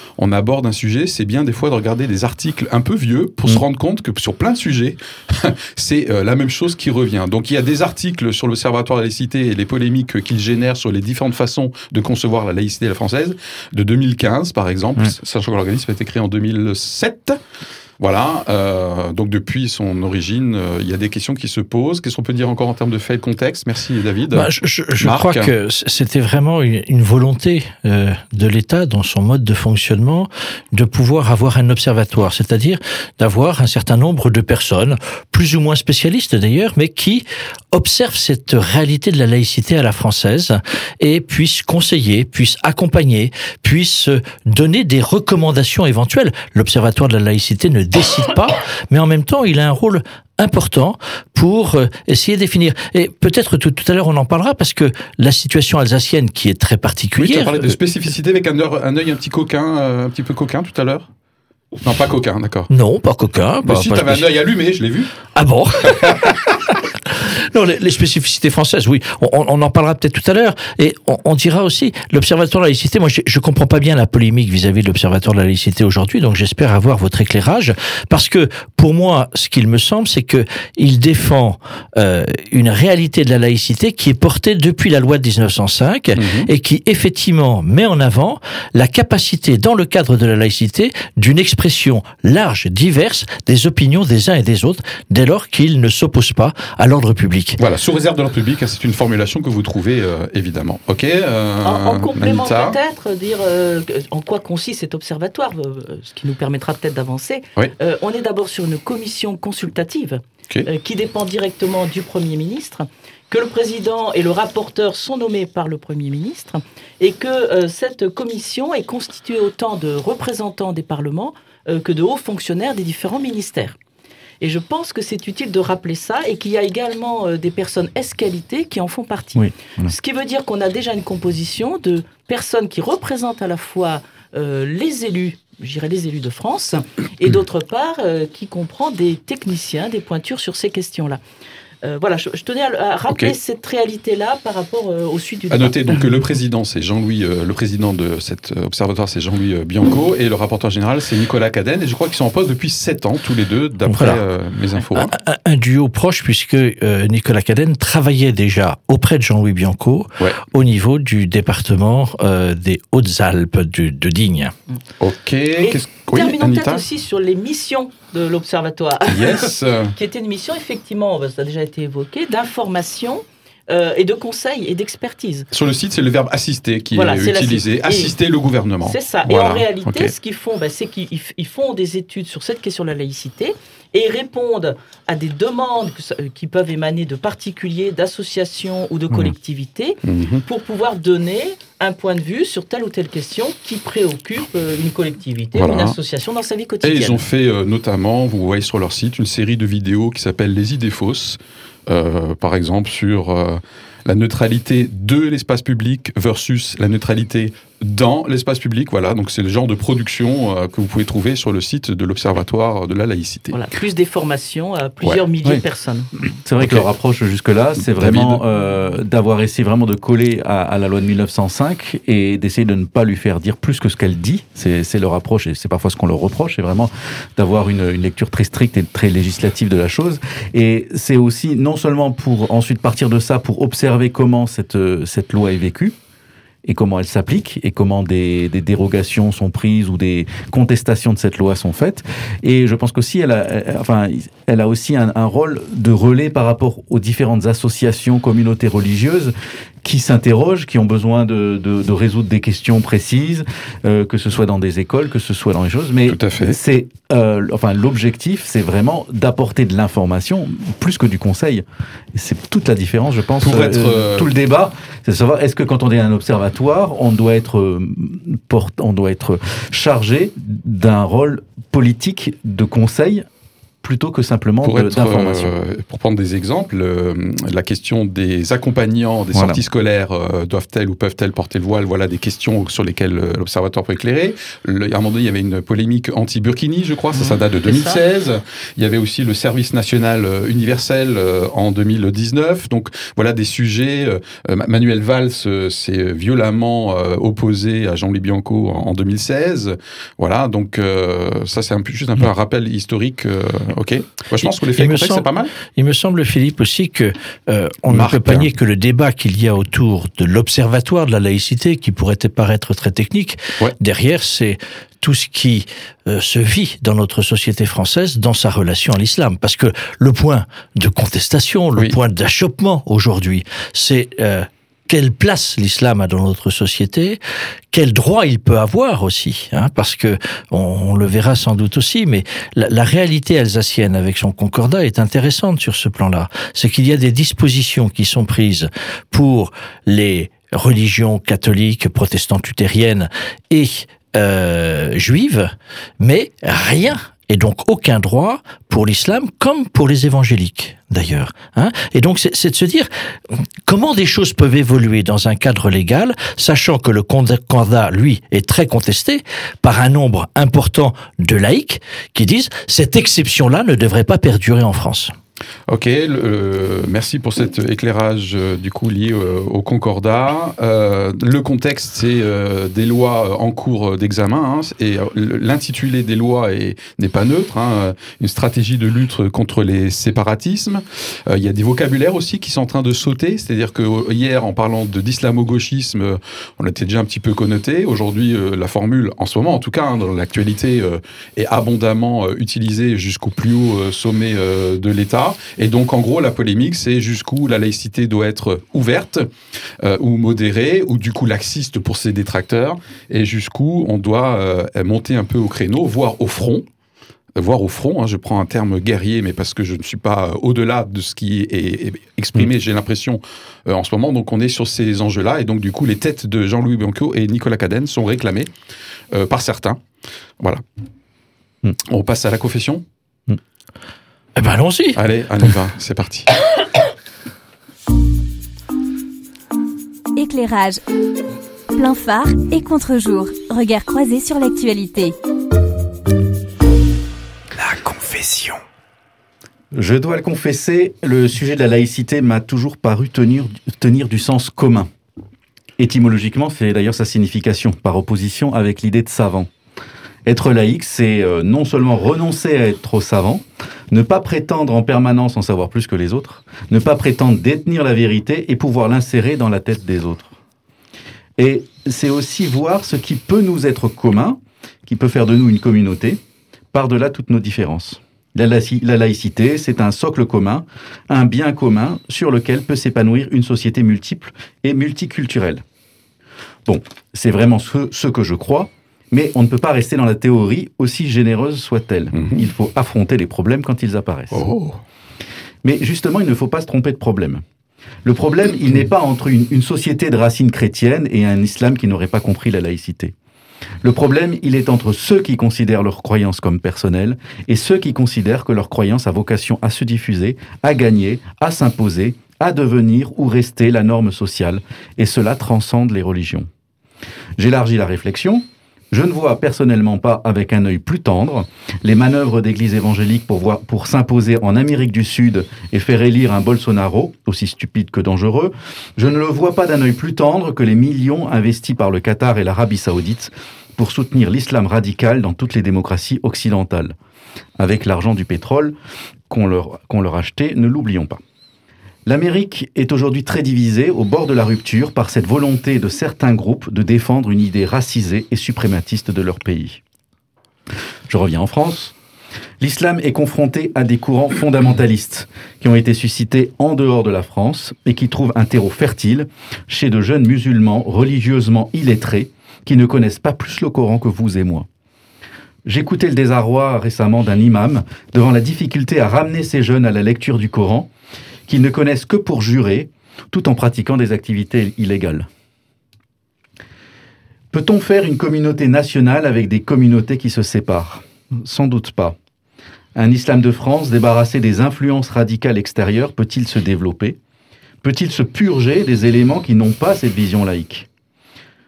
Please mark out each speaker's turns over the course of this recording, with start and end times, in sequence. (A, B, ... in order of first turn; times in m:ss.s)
0:00.2-0:17.4 A
0:18.0-0:25.5 A
0:24.3-0:57.8 B
0:57.2-1:01.1 A
1:01.8-1:02.7 A
1:02.7-1:04.3 B
1:03.6-1:05.2 A
1:05.4-1:37.6 B
1:26.2-1:26.5 A
1:37.6-1:42.8 A
1:41.6-2:03.8 C
2:04.4-2:21.2 C
2:09.4-2:09.9 D
2:21.8-2:25.8 C
2:23.1-2:23.4 A
2:25.5-2:35.1 A
2:33.9-2:34.2 B
2:34.9-2:44.5 B
2:45.0-2:46.8 A
2:45.6-2:55.5 C
2:49.1-2:49.9 A
2:55.5-3:00.1 A
2:56.9-2:58.1 C
2:58.8-3:17.2 C
3:10.0-3:10.4 A
3:15.6-3:16.0 A
3:16.8-3:33.6 A
3:33.5-3:36.1 C
3:36.4-3:55.9 D
3:37.9-3:38.4 A
3:56.6-4:33.2 D
4:16.1-4:16.6 A
4:23.4-4:24.3 A
4:33.8-4:35.5 D
4:34.6-5:05.5 A
4:39.3-4:39.6 D
4:47.7-4:48.0 C
5:04.4-5:27.2 B
5:07.9-5:08.5 A
5:27.7-6:05.1 B
6:05.7-6:39.3 A
6:39.8-6:46.6 A
6:47.3-6:58.5 A
6:59.1-6:59.8 A
7:01.9-7:02.8 A
7:04.4-7:05.0 B
7:05.0-7:06.3 A
7:10.2-7:10.8 E
7:11.7-7:15.1 E
7:17.6-7:18.6 D
7:19.7-7:24.9 D
7:25.8-7:29.5 D
7:30.3-7:40.3 D
7:41.4-7:46.2 D
7:46.7-7:55.6 D
7:56.6-8:04.4 D
8:04.3-8:04.8 A
8:05.6-8:07.4 D
8:08.0-8:13.1 D
8:13.8-8:26.5 D
8:27.4-8:46.9 D
8:47.6-8:48.8 D
8:49.3-8:51.2 D
8:52.1-8:59.8 D
9:01.1-9:01.9 D
9:02.6-9:14.7 D
9:15.6-9:20.9 D
9:21.5-9:25.3 D
9:27.5-9:32.2 D
9:32.9-9:37.2 D
9:37.8-9:40.9 D